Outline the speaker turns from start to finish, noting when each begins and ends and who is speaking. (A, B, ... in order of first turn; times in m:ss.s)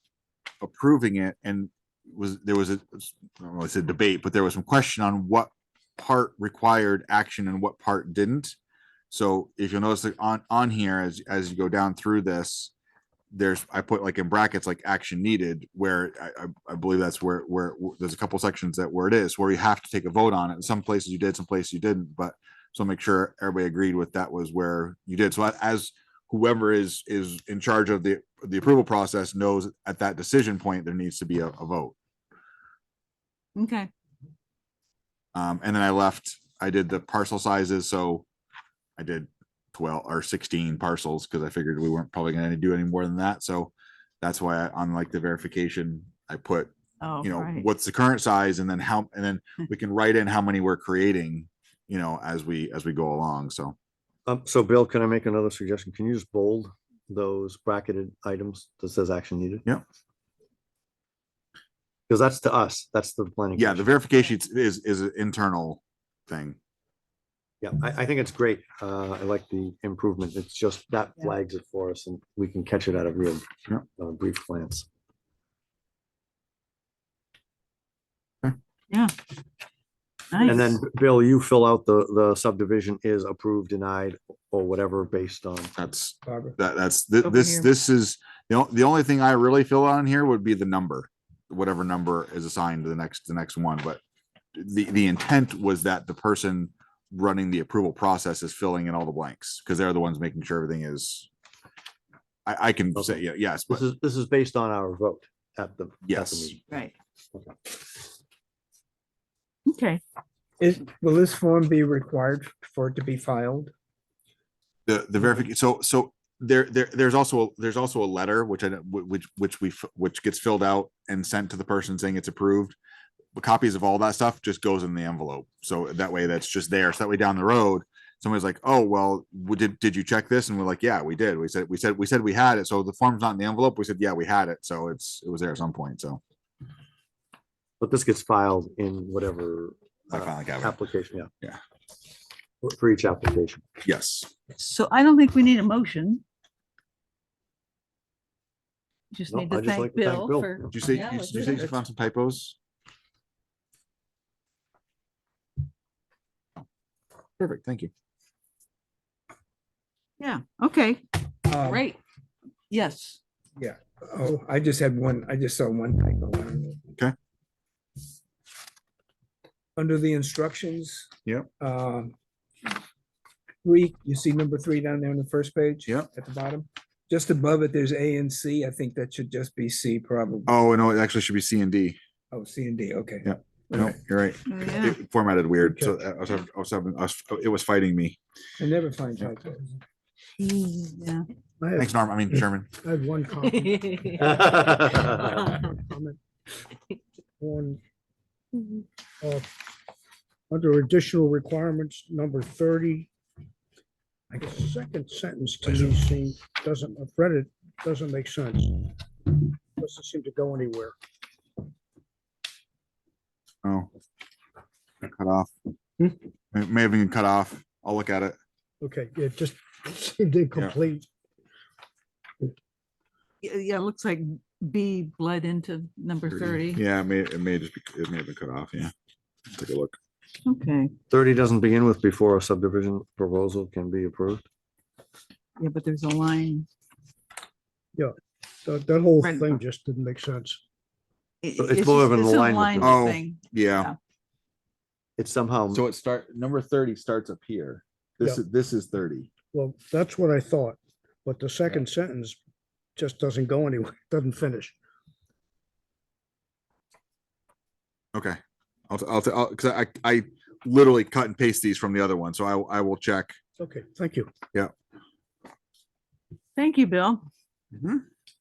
0:00.6-0:08.6 A
0:09.1-0:12.7 A
0:13.3-0:32.0 A
0:33.6-0:33.9 B
0:35.3-0:38.2 A
0:39.0-0:53.8 A
0:47.0-0:47.7 B
0:54.3-0:59.7 C
1:02.1-1:03.9 C
1:03.6-1:06.6 A
1:07.6-1:14.9 C
1:20.3-1:20.8 B
1:20.5-1:25.7 C
1:25.8-1:34.0 A
1:26.3-1:26.6 D
1:27.2-1:27.7 B
1:34.6-1:41.3 A
1:42.5-1:43.8 A
1:43.0-1:46.6 C
1:46.0-1:46.6 A
1:49.7-1:50.0 B
1:50.6-1:53.7 D
1:54.9-2:02.8 A
2:03.4-2:16.2 A
2:17.8-2:21.3 C
2:20.1-2:20.8 A
2:22.6-2:23.7 C
2:23.8-2:24.3 A
2:24.6-2:26.2 B
2:29.1-2:31.7 B
2:29.3-2:30.6 C
2:30.7-2:32.6 A
2:37.4-2:37.9 A
2:40.2-2:42.0 B
2:41.5-2:41.8 D
2:42.7-2:43.2 B
2:43.6-2:46.8 D
2:49.8-2:52.1 D
2:53.6-3:00.5 D
3:00.5-3:02.0 A
3:02.3-3:03.9 D
3:03.2-3:08.2 A
3:04.5-3:05.0 B
3:08.6-3:09.7 D
3:10.4-3:11.2 B
3:11.6-3:11.9 E
3:11.8-3:12.7 A
3:12.8-3:14.7 E
3:14.2-3:15.4 C
3:15.4-3:16.2 E
3:17.4-3:17.8 E
3:19.2-3:19.5 E
3:20.5-3:23.1 E
3:24.3-3:28.8 E
3:29.8-3:30.9 E
3:33.6-3:33.9 A
3:35.0-3:35.5 A
3:36.5-3:38.4 A
3:38.8-3:41.1 E
3:43.4-3:46.8 B
3:46.3-3:48.9 A
3:49.5-3:50.0 A
3:50.4-3:50.9 B
3:51.1-3:54.4 C
3:55.6-3:56.7 B
3:58.6-4:00.6 E
3:59.2-3:59.6 B
4:01.4-4:04.0 B
4:01.6-4:03.1 C
4:02.8-4:03.9 A
4:05.2-4:05.8 C
4:05.7-4:09.3 A
4:09.5-4:12.4 E
4:13.0-4:14.7 E
4:18.1-4:18.4 A
4:18.9-4:23.4 A
4:23.6-4:24.3 E
4:26.6-4:27.2 B
4:27.7-4:28.0 A